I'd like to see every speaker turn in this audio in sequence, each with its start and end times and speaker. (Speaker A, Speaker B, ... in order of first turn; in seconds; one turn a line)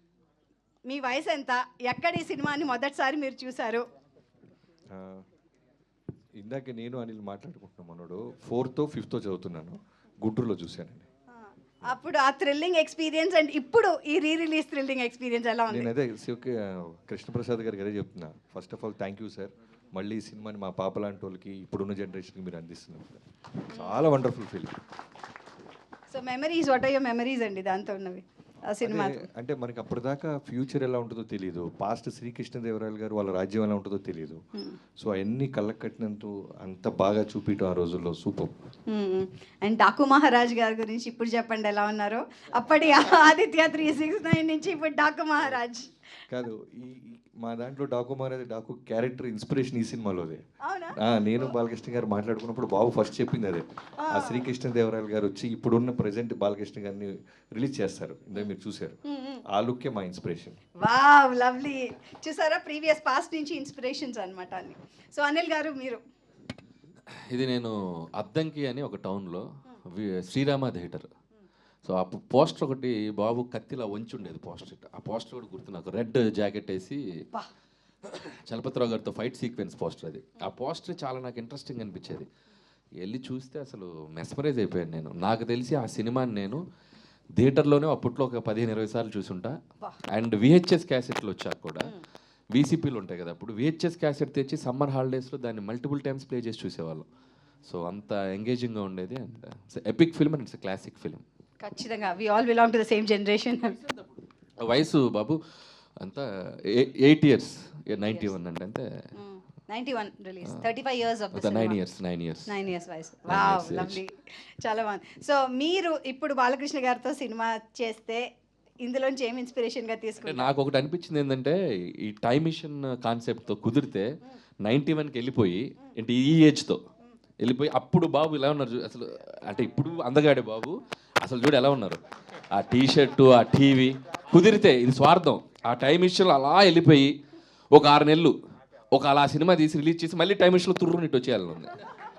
Speaker A: 0.9-3.8
Speaker B: 4.9-5.2
Speaker B: 6.4-11.1
Speaker A: 11.3-15.9
Speaker B: 15.7-23.2
Speaker A: 23.7-24.1
Speaker B: 23.7-24.7
Speaker A: 26.1-29.2
Speaker B: 28.8-34.4
Speaker B: 35.0-38.5
Speaker A: 38.9-45.9
Speaker B: 46.3-50.4
Speaker A: 50.6-51.0
Speaker B: 51.0-59.0
Speaker A: 54.0-54.5
Speaker A: 59.0-59.4
Speaker B: 59.5-60.6
Speaker A: 60.8-66.0
Speaker C: 67.3-71.1
Speaker C: 71.8-77.0
Speaker C: 78.0-82.3
Speaker C: 83.0-86.6
Speaker C: 87.4-89.6
Speaker C: 90.1-91.9
Speaker C: 92.5-97.0
Speaker C: 97.6-101.2
Speaker A: 101.6-103.8
Speaker C: 104.6-105.4
Speaker C: 106.0-108.8
Speaker A: 108.0-108.3
Speaker A: 109.2-111.8
Speaker C: 111.3-112.5
Speaker A: 112.5-118.2
Speaker C: 113.3-114.0
Speaker A: 118.8-120.6
Speaker C: 120.2-126.8
Speaker C: 127.4-137.1
Speaker C: 137.7-138.3
Speaker C: 138.9-141.7